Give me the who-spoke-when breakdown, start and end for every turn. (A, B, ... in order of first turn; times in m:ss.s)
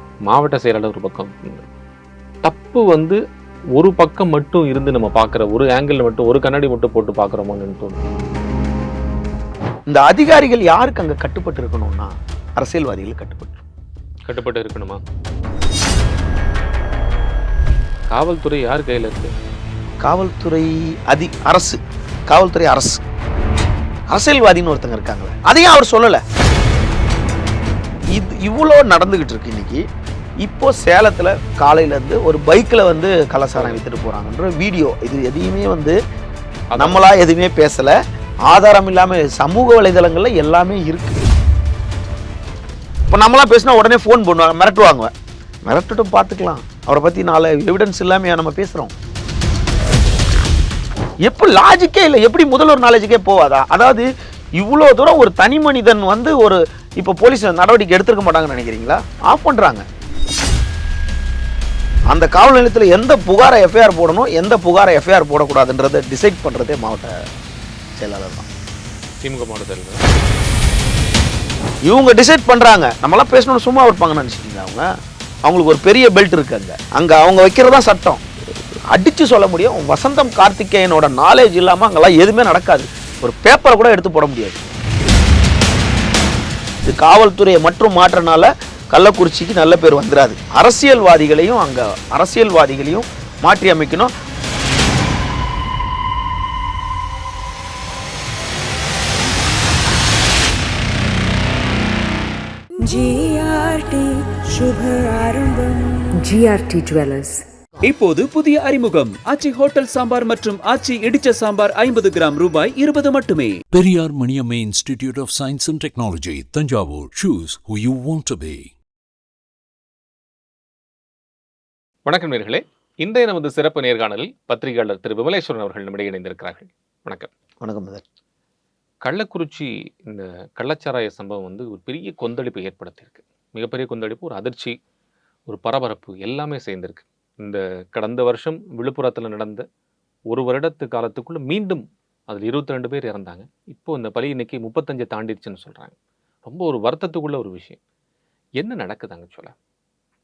0:00.3-0:01.6 A
0:02.4-0:03.2 A
0:03.8-0:08.0 A
0:09.9-0:13.6 B
0:14.2-0:15.0 A
0:18.1-0:19.3 A
0:20.0-0:23.0 B
0:24.1-0:26.2 B
0:28.1-0:29.8 B
0:30.4-0:36.0 B
0:33.6-0:33.8 A
0:36.7-0:37.1 A
0:36.8-0:38.0 B
0:38.5-0:41.3 B
0:43.1-0:45.1 B
0:45.7-0:48.9 B
0:51.2-0:54.0 B
0:54.6-0:59.8 B
1:02.1-1:07.1 B
1:08.0-1:08.4 B
1:09.2-1:10.0 A
1:11.9-1:14.9 B
1:15.4-1:18.2 B
1:18.9-1:24.6 B
1:26.8-1:34.1 B
1:42.8-1:47.4 C
1:47.8-1:53.6 D
1:53.7-1:58.7 E
2:02.1-2:07.3 A
2:07.6-2:08.0 B
2:09.0-2:14.8 A
2:15.5-2:19.6 A
2:20.3-2:25.9 A
2:26.4-2:27.8 A
2:28.6-2:29.5 A